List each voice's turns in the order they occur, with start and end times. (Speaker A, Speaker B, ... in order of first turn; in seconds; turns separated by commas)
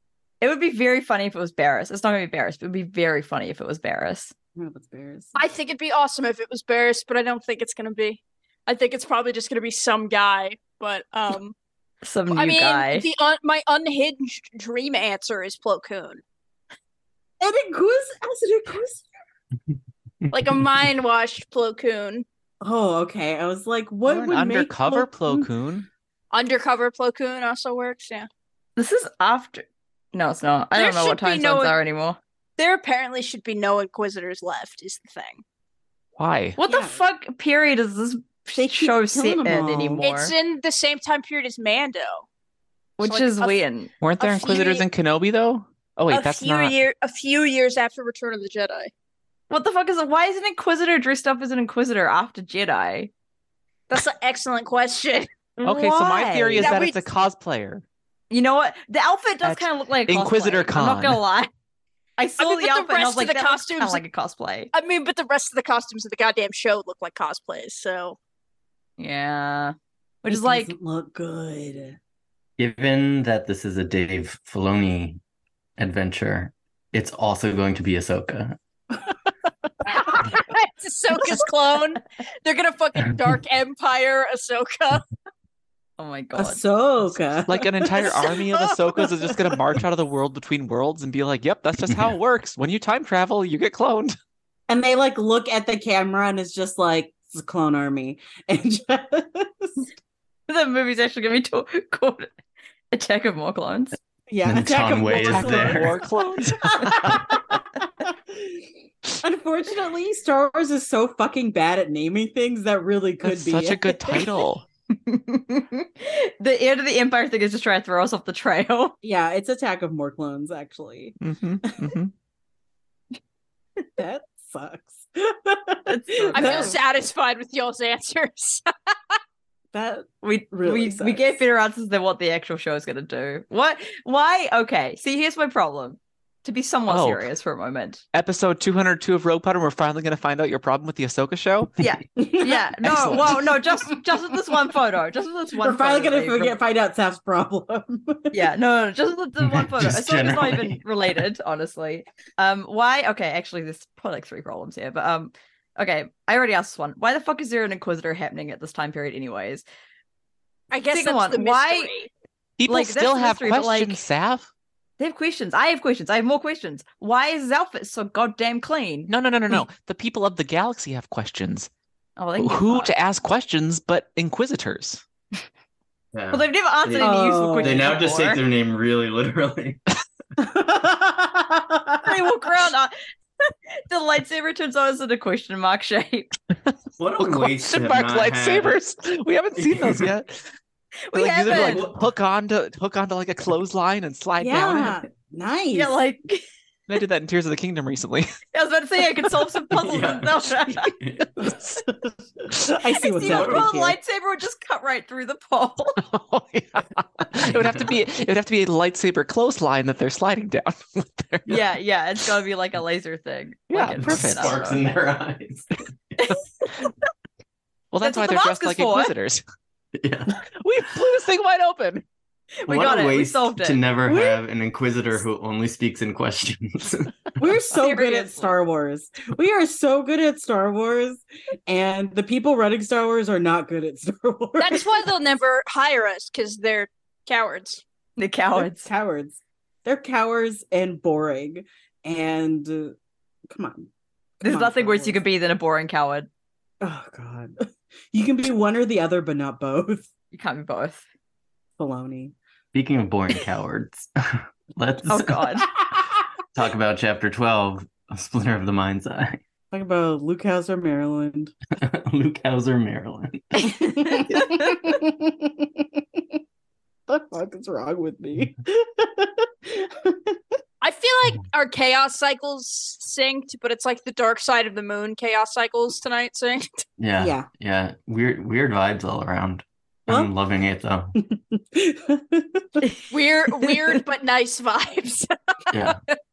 Speaker A: 0.4-4.3, Speaker B: 4.6-5.3, Speaker C: 5.4-11.6, Speaker A: 12.0-13.1, Speaker C: 12.3-16.2, Speaker B: 17.4-19.1, Speaker C: 20.3-22.2, Speaker B: 22.6-25.5, Speaker D: 24.1-25.9, Speaker C: 26.3-28.3, Speaker A: 28.8-32.2, Speaker C: 30.8-31.8, Speaker C: 32.6-35.4, Speaker D: 36.2-36.6, Speaker A: 36.6-40.3, Speaker B: 36.6-37.0, Speaker B: 38.6-40.0, Speaker C: 40.0-42.2, Speaker A: 43.0-43.9, Speaker C: 43.0-43.6, Speaker D: 44.0-46.8, Speaker C: 44.2-44.9, Speaker C: 46.1-48.9, Speaker A: 49.5-53.1, Speaker C: 53.9-55.3, Speaker A: 55.6-56.8, Speaker D: 55.6-57.8, Speaker C: 56.6-57.0, Speaker A: 58.3-61.5, Speaker D: 59.4-61.2, Speaker A: 62.2-64.7, Speaker C: 62.4-64.0, Speaker C: 64.7-68.2, Speaker A: 69.0-70.7, Speaker B: 70.2-72.0, Speaker E: 72.6-75.2, Speaker E: 75.8-78.6, Speaker B: 79.9-80.2, Speaker C: 79.9-85.0, Speaker A: 86.0-86.6, Speaker B: 86.3-89.3, Speaker D: 87.5-94.2, Speaker B: 94.7-99.9, Speaker A: 100.5-102.3, Speaker A: 102.9-104.0, Speaker B: 104.3-108.7, Speaker E: 104.5-106.0, Speaker D: 105.1-107.2, Speaker B: 109.2-114.2, Speaker D: 113.2-114.6, Speaker A: 115.0-119.0, Speaker B: 119.0-121.9, Speaker D: 121.2-122.1, Speaker B: 124.0-126.8, Speaker A: 125.9-126.8, Speaker C: 126.3-128.7, Speaker B: 129.7-131.4, Speaker A: 130.2-138.0, Speaker D: 136.9-137.3, Speaker D: 138.1-141.7, Speaker A: 141.8-146.6, Speaker B: 142.2-143.2, Speaker D: 142.9-143.3, Speaker B: 145.6-148.4, Speaker A: 148.3-159.6, Speaker E: 149.4-150.8, Speaker C: 160.7-162.1, Speaker A: 160.9-161.9, Speaker D: 162.6-164.5, Speaker A: 162.7-164.0, Speaker A: 165.0-169.1, Speaker D: 169.1-171.7, Speaker A: 172.2-172.9, Speaker D: 172.4-175.0, Speaker E: 176.1-179.8, Speaker A: 176.3-178.4, Speaker B: 177.0-177.9, Speaker B: 180.4-182.1, Speaker A: 182.0-182.9, Speaker A: 183.5-186.3, Speaker E: 187.0-188.8, Speaker D: 187.2-190.4, Speaker E: 189.6-190.1, Speaker A: 191.1-191.9, Speaker D: 191.1-195.0, Speaker E: 191.5-192.1, Speaker B: 194.4-195.9, Speaker A: 195.7-196.4, Speaker D: 196.9-198.4, Speaker A: 198.5-200.9, Speaker E: 199.8-201.5, Speaker B: 202.5-204.0, Speaker A: 203.0-206.0, Speaker E: 203.2-203.7, Speaker D: 206.0-211.6, Speaker E: 207.4-208.0, Speaker A: 211.5-214.8, Speaker D: 213.7-214.6, Speaker E: 214.0-215.7, Speaker D: 217.9-219.4, Speaker A: 218.0-219.1, Speaker E: 219.9-220.3, Speaker D: 220.4-222.0, Speaker A: 222.6-223.8, Speaker E: 222.7-227.1, Speaker B: 224.1-224.3, Speaker B: 227.4-235.0, Speaker A: 227.7-228.5, Speaker C: 234.6-237.8, Speaker A: 238.2-238.9, Speaker B: 238.5-242.9, Speaker B: 243.5-243.9, Speaker A: 244.4-246.3, Speaker B: 244.4-245.2, Speaker B: 246.8-250.1, Speaker A: 250.3-251.0, Speaker B: 251.8-252.3, Speaker E: 252.7-255.6, Speaker A: 255.1-255.7, Speaker E: 256.5-259.4, Speaker B: 259.7-261.5, Speaker E: 261.8-263.7, Speaker A: 263.7-264.9, Speaker B: 263.8-266.2, Speaker B: 267.1-270.4, Speaker C: 270.8-276.8, Speaker E: 277.0-281.1, Speaker B: 277.2-277.5, Speaker B: 281.2-282.9, Speaker C: 283.1-285.9, Speaker E: 285.7-286.0